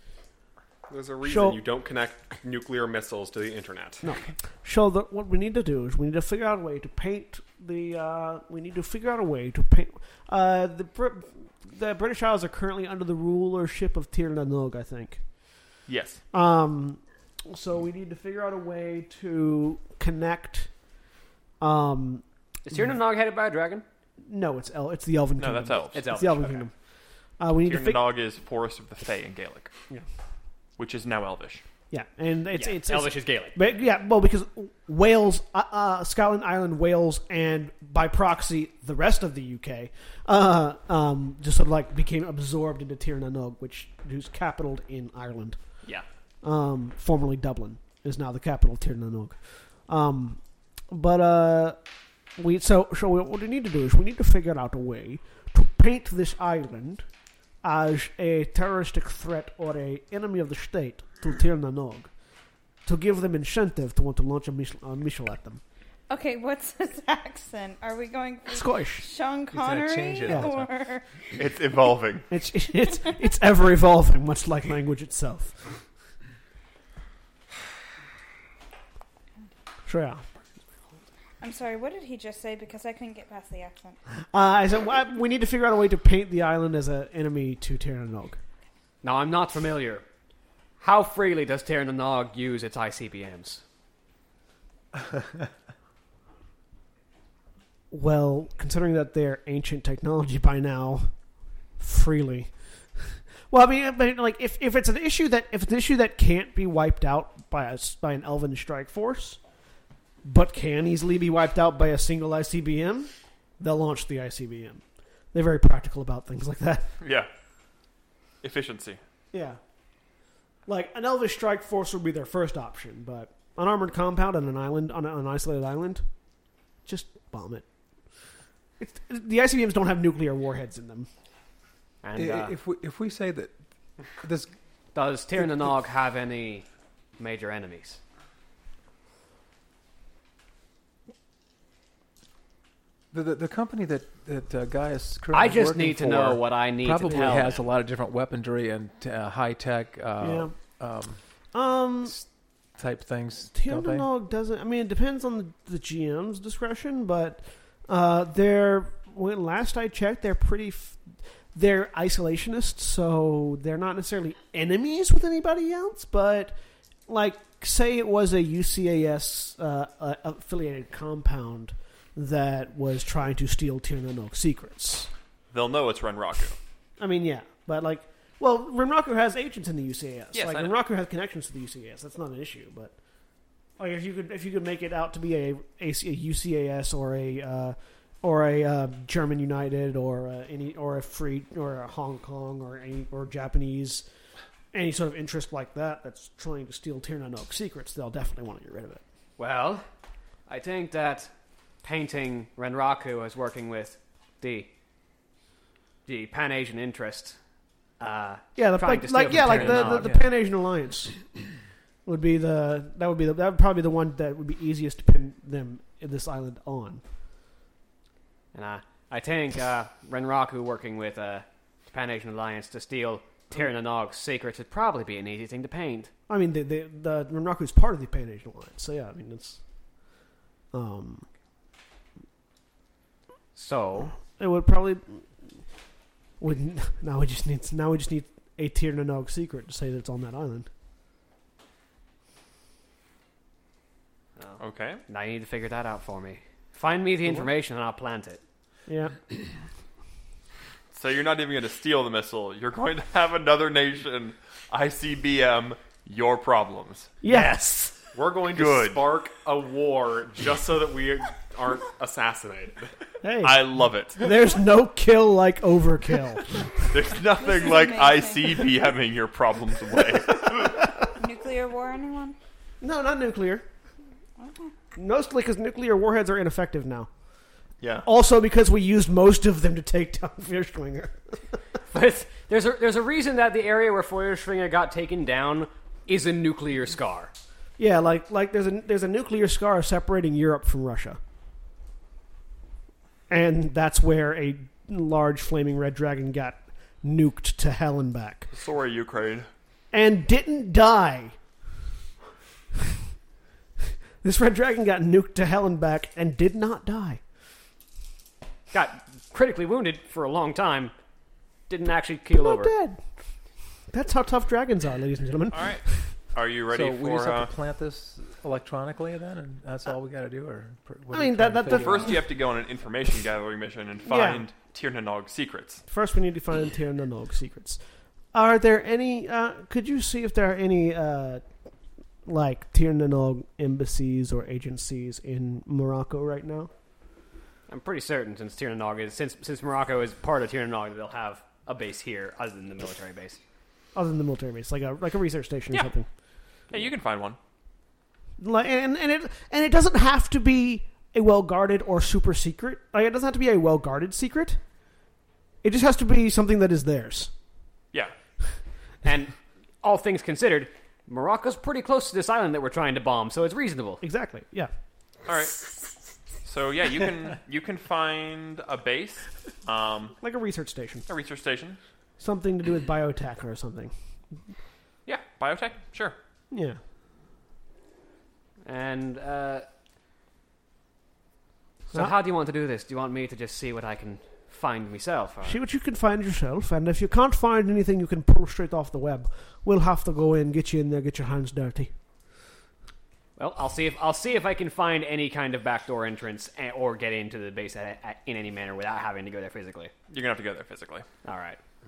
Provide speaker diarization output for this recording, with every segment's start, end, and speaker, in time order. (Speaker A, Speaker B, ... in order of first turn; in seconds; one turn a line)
Speaker A: 0.9-4.0
Speaker B: 1.2-1.6
Speaker B: 4.0-15.2
Speaker C: 15.9-16.2
Speaker B: 16.3-20.7
Speaker B: 21.6-22.2
Speaker D: 22.6-23.8
Speaker B: 24.3-26.7
Speaker C: 25.4-26.1
Speaker D: 25.9-26.7
Speaker B: 27.4-28.0
Speaker C: 27.6-29.7
Speaker C: 30.8-31.6
Speaker B: 31.9-45.6
Speaker D: 32.5-33.6
Speaker B: 46.4-51.8
Speaker B: 52.4-57.0
Speaker B: 57.6-62.1
Speaker B: 62.9-65.6
Speaker E: 66.1-71.1
Speaker B: 68.5-69.1
Speaker F: 69.5-70.7
Speaker B: 70.3-70.5
Speaker C: 71.3-72.3
Speaker B: 72.3-75.8
Speaker B: 79.9-80.2
Speaker E: 81.4-84.0
Speaker B: 84.3-88.4
Speaker D: 89.0-90.0
Speaker D: 90.8-93.6
Speaker B: 97.9-101.1
Speaker B: 101.8-109.4
Speaker B: 110.2-114.8
Speaker B: 115.3-116.9
Speaker C: 117.0-117.3
Speaker C: 118.4-119.0
Speaker B: 119.3-119.6
Speaker B: 120.7-126.0
Speaker B: 126.8-127.7
Speaker B: 128.8-131.1
Speaker D: 132.0-132.6
Speaker F: 132.2-133.6
Speaker F: 134.1-134.5
Speaker D: 134.9-136.7
Speaker D: 137.2-138.0
Speaker F: 143.1-151.2
Speaker D: 145.3-147.7
Speaker B: 150.2-150.5
Speaker B: 151.5-152.2
Speaker F: 152.1-154.1
Speaker B: 153.5-166.6
Speaker B: 167.1-175.1
Speaker C: 175.5-176.6
Speaker B: 177.0-182.9
Speaker C: 180.3-180.8
Speaker B: 183.8-194.1
Speaker B: 194.7-199.0
Speaker D: 199.4-199.9
Speaker D: 200.5-201.3
Speaker D: 201.8-204.7
Speaker D: 206.1-207.4
Speaker D: 208.0-210.2
Speaker B: 208.6-211.3
Speaker F: 209.3-210.3
Speaker B: 212.1-217.0
Speaker D: 218.5-226.1
Speaker B: 226.3-229.6
Speaker B: 230.7-231.3
Speaker D: 233.6-234.2
Speaker B: 234.4-235.3
Speaker B: 236.4-240.7
Speaker D: 244.4-248.4
Speaker C: 244.6-245.0
Speaker B: 248.9-249.2
Speaker C: 250.9-257.1
Speaker B: 257.2-258.0
Speaker D: 257.3-257.6
Speaker A: 258.1-262.9
Speaker C: 258.5-259.0
Speaker B: 263.2-266.6
Speaker C: 263.4-264.2
Speaker C: 266.9-270.9
Speaker E: 267.4-268.6
Speaker E: 271.2-272.4
Speaker B: 272.8-273.6
Speaker E: 274.4-274.7
Speaker B: 275.0-277.1
Speaker C: 277.8-278.1
Speaker B: 278.1-281.6
Speaker D: 281.9-287.3
Speaker B: 287.8-291.2
Speaker B: 293.3-298.5
Speaker C: 298.5-299.5
Speaker B: 299.9-301.4
Speaker B: 304.2-307.2
Speaker D: 308.7-310.9
Speaker D: 311.7-312.7
Speaker B: 312.4-313.0
Speaker B: 313.9-316.1
Speaker C: 315.5-317.5
Speaker F: 316.7-322.2
Speaker B: 321.1-322.3
Speaker C: 321.7-325.8
Speaker B: 324.1-324.4
Speaker B: 325.9-327.8
Speaker B: 328.3-331.4
Speaker B: 332.2-336.7
Speaker D: 337.7-343.4
Speaker B: 343.9-346.1
Speaker C: 346.7-347.4
Speaker B: 348.4-354.6
Speaker B: 355.6-357.3
Speaker D: 359.0-364.0
Speaker B: 364.0-364.7
Speaker C: 365.3-365.8
Speaker C: 366.4-370.2
Speaker B: 370.2-371.1
Speaker C: 371.1-371.8
Speaker B: 372.2-373.9
Speaker C: 375.1-376.2
Speaker B: 376.5-376.8
Speaker D: 378.6-379.7
Speaker D: 381.9-385.6
Speaker B: 385.4-391.9
Speaker D: 393.4-399.9
Speaker C: 400.1-401.1
Speaker D: 401.2-401.6